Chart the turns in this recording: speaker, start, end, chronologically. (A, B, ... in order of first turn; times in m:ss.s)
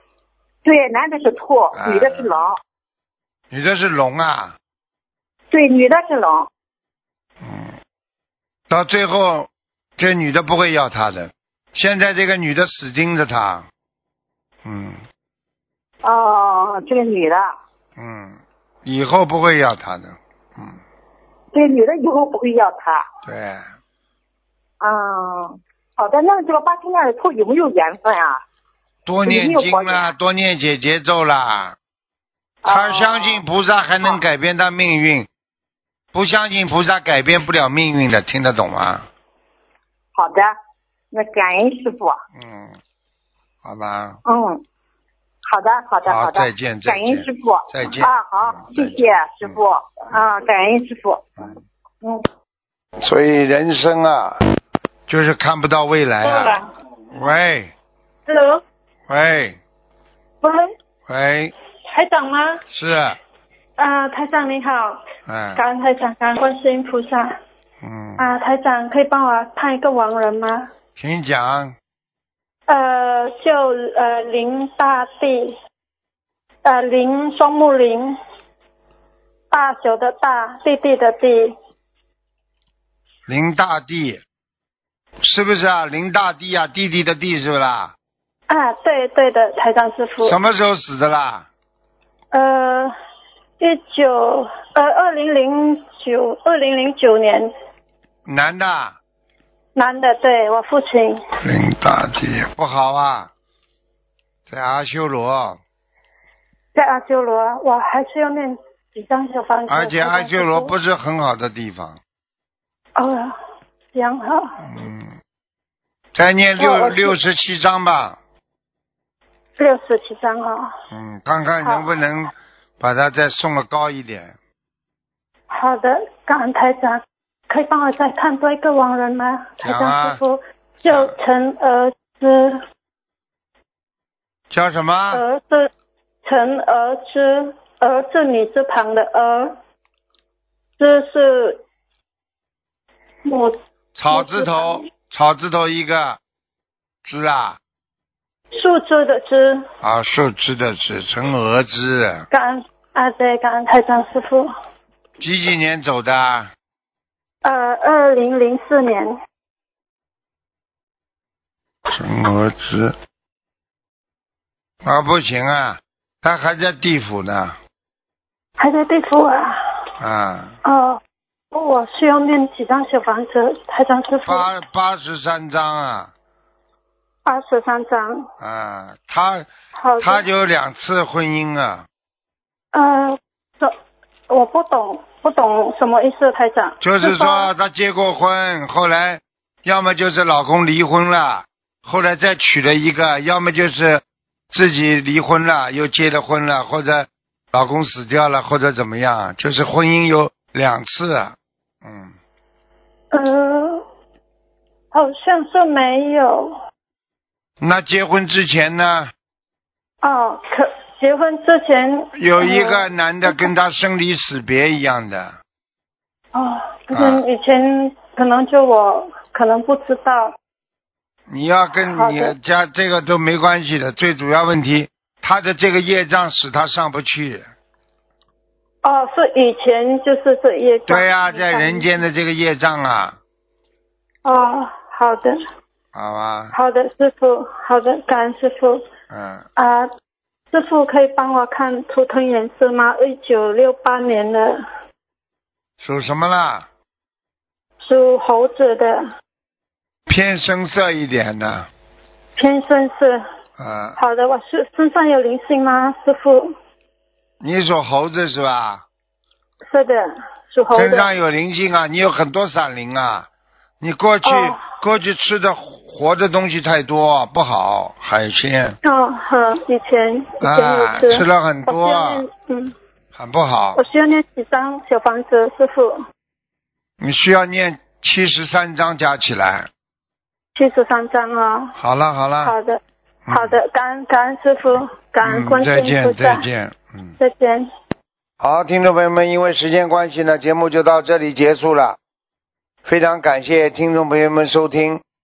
0:00.6-0:02.6 A
0:01.8-0:02.4 B
0:03.5-0:04.6 B
0:05.5-0:06.5 A
0:07.4-0:07.7 B
0:08.7-0:13.7 B
0:14.6-0:15.0 B
0:16.0-0:17.5 A
0:18.0-0:20.8 B
0:21.5-0:23.1 A
0:23.3-0:23.7 B
0:24.8-0:28.4 A
0:29.1-0:31.8 B
0:29.2-0:30.1 A
0:32.6-0:33.4 A
0:32.7-0:35.3 B
0:36.1-0:39.1 B
0:40.2-0:40.6 A
0:41.1-0:42.2 A
0:42.4-0:42.8 B
0:43.6-0:44.2 B
0:44.3-0:44.6 A
0:45.4-0:51.4 A
0:46.0-0:49.6 B
0:53.0-0:54.4 B
0:55.1-0:56.6 B
0:56.2-0:56.7 C
0:57.1-0:57.7 B
0:58.3-0:58.6 C
0:59.1-0:59.6 B
1:00.4-1:00.7 C
1:01.1-1:01.5 B
1:01.9-1:02.6 C
1:02.7-1:03.2 B
1:03.8-1:05.0 C
1:05.3-1:05.6 B
1:05.6-1:07.4 C
1:07.8-1:08.3 B
1:08.2-1:10.7 C
1:11.0-1:11.7 B
1:12.7-1:15.6 C
1:16.6-1:18.2 C
1:19.5-1:21.6 C
1:23.3-1:24.2 B
1:25.2-1:28.0 B
1:28.5-1:30.4 C
1:30.2-1:31.5 B
1:32.3-1:32.9 C
1:33.6-1:37.5 C
1:38.3-1:39.0 B
1:39.8-1:41.2 C
1:41.4-1:43.3 B
1:44.5-1:45.6 B
1:46.8-1:50.7 C
1:49.7-1:52.0 B
1:53.0-1:53.4 C
1:53.9-1:54.6 C
1:54.6-1:55.2 B
1:56.1-1:58.2 B
1:56.6-1:57.2 C
1:59.6-2:00.7 C
2:00.9-2:04.4 B
2:01.6-2:01.9 C
2:05.5-2:12.6 C
2:09.6-2:10.2 B
2:10.9-2:11.1 B
2:14.5-2:15.2 B
2:15.1-2:15.7 C
2:16.2-2:19.6 C
2:20.8-2:21.6 C
2:23.2-2:23.6 C
2:24.0-2:26.2 B
2:24.1-2:24.8 C
2:27.0-2:27.6 B
2:28.5-2:29.7 C
2:29.8-2:32.3 B
2:32.3-2:34.5 C
2:35.2-2:36.5 B
2:37.4-2:39.2 C
2:41.9-2:43.0 B
2:44.8-2:47.6 B
2:48.6-2:49.6 C
2:50.0-2:50.6 B
2:50.6-2:51.0 C
2:51.5-2:54.5 C
2:54.3-2:56.1 B
2:57.3-2:58.3 C
2:58.4-2:59.5 B
2:59.8-3:00.3 C
3:00.0-3:01.9 B
3:02.7-3:03.7 C
3:04.3-3:07.5 C
3:06.8-3:22.2 B
3:23.1-3:23.8 C
3:24.9-3:26.6 C
3:27.6-3:29.1 B
3:30.0-3:33.5 C
3:32.2-3:35.4 B
3:36.3-3:40.4 C
3:36.9-3:37.2 B
3:41.3-3:47.5 B
3:41.9-3:42.4 C
3:48.8-3:52.0 C
3:50.9-3:53.2 B
3:54.2-3:55.4 C
3:55.9-3:56.6 B
3:56.5-3:58.9 C
3:59.1-3:59.5 B
3:59.6-3:59.9 C
4:00.5-4:04.6 C
4:05.8-4:06.7 B
4:07.8-4:09.1 C
4:10.1-4:11.7 B
4:12.4-4:13.2 C
4:13.6-4:14.0 B
4:14.0-4:16.6 C
4:17.4-4:18.8 B
4:19.7-4:21.1 C
4:20.7-4:23.3 B
4:23.8-4:28.8 B
4:24.2-4:24.6 C
4:28.8-4:32.8 C
4:30.4-4:32.3 B
4:33.2-4:33.8 B
4:33.8-4:36.0 C
4:37.0-4:39.7 B
4:40.6-4:41.8 C
4:41.8-4:42.6 B
4:42.4-4:46.5 C
4:43.3-4:43.6 B
4:45.2-4:47.2 B
4:47.2-4:47.7 C
4:48.4-4:52.0 B
4:52.8-4:55.0 B